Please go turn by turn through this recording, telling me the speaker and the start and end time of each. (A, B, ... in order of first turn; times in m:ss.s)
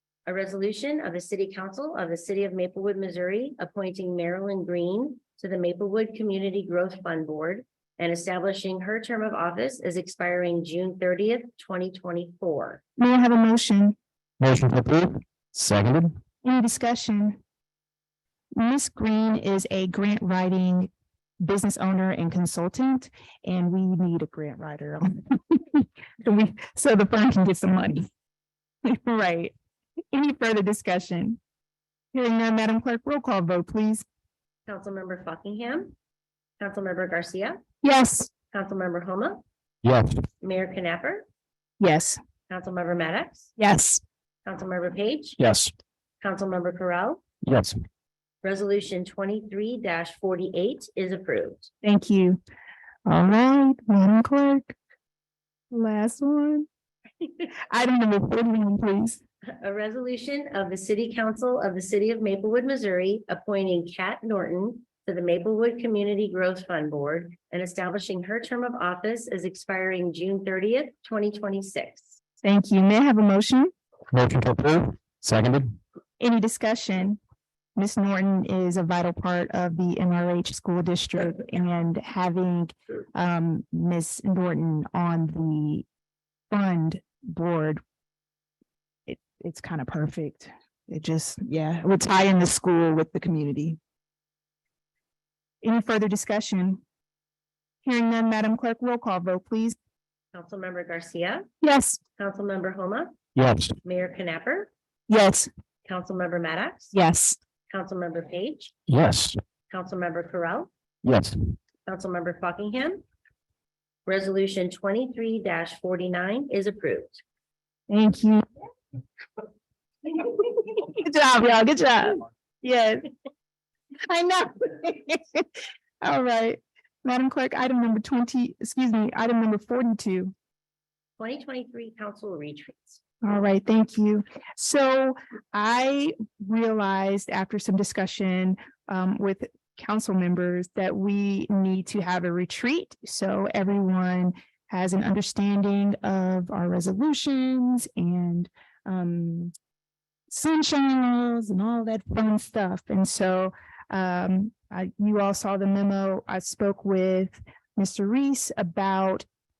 0:00.2-0:12.8 A
0:13.0-0:14.0 B
0:14.4-0:16.1 C
0:16.4-0:17.4 B
0:18.5-0:28.1 B
0:28.8-0:29.5 B
0:30.1-0:31.4 B
0:32.1-0:34.0 B
0:34.7-0:35.9 A
0:36.6-0:37.6 A
0:37.8-0:38.3 B
0:38.5-0:39.4 A
0:39.8-0:40.2 C
0:40.4-0:41.2 A
0:41.8-0:42.2 B
0:42.5-0:43.5 A
0:43.6-0:44.0 B
0:44.4-0:45.4 A
0:45.4-0:45.7 C
0:46.2-0:47.2 A
0:47.4-0:47.8 C
0:48.4-0:51.7 A
0:51.8-0:52.4 B
0:53.0-0:54.7 B
0:55.7-0:56.7 B
0:57.7-0:59.2 B
0:59.6-1:12.1 A
1:12.4-1:13.7 B
1:14.1-1:15.8 C
1:16.2-1:17.2 B
1:17.8-1:25.8 B
1:26.5-1:27.8 B
1:29.1-1:33.8 B
1:35.6-1:36.8 B
1:37.8-1:39.8 B
1:40.3-1:41.4 A
1:41.6-1:42.0 B
1:42.2-1:43.2 A
1:43.3-1:43.7 C
1:43.8-1:44.7 A
1:45.1-1:45.5 B
1:45.8-1:46.9 A
1:46.9-1:47.4 B
1:47.7-1:48.7 A
1:48.9-1:49.4 C
1:49.7-1:50.7 A
1:51.0-1:51.4 C
1:51.8-1:53.0 A
1:54.0-1:57.2 A
1:57.9-1:58.4 B
2:00.2-2:03.0 B
2:04.1-2:05.4 B
2:06.0-2:10.3 B
2:11.2-2:13.0 A
2:13.2-2:29.5 B
2:30.3-2:39.3 B